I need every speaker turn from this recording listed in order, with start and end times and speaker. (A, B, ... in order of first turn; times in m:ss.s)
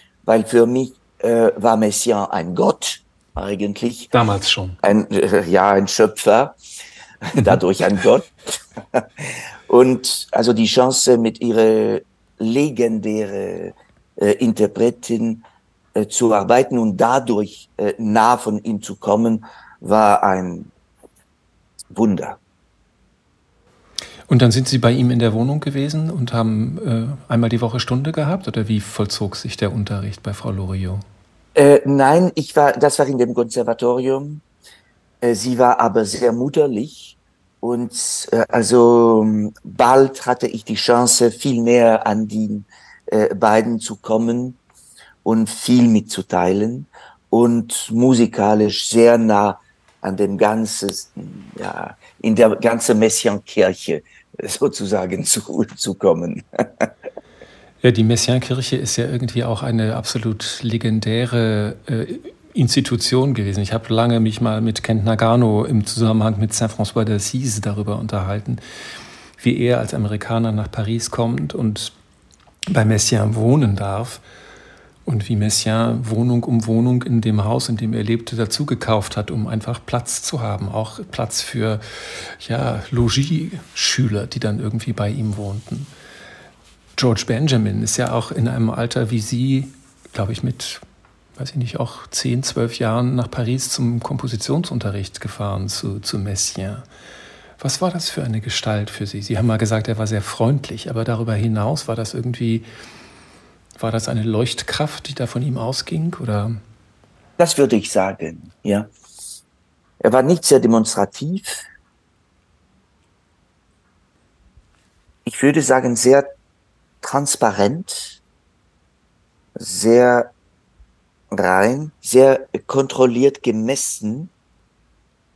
0:00.2-0:04.1 A
0:04.1-0:04.8 B
0:04.8-0:06.6 A
0:07.2-0:20.7 A
0:21.9-0:22.4 A
0:24.3-0:31.0 B
0:31.5-0:34.4 A
0:35.2-0:44.6 A
0:45.2-0:56.9 A
0:57.8-1:08.6 B
1:09.4-1:11.9 B
1:12.7-1:14.2 B
1:15.0-1:25.9 B
1:27.0-1:30.8 B
1:31.4-1:36.8 B
1:37.6-1:42.6 B
1:43.8-1:46.6 B
1:47.4-1:48.9 A
1:50.0-1:51.6 A
1:55.2-1:56.3 A
1:57.0-1:58.2 A
1:59.6-2:00.3 A
2:01.3-2:04.3 A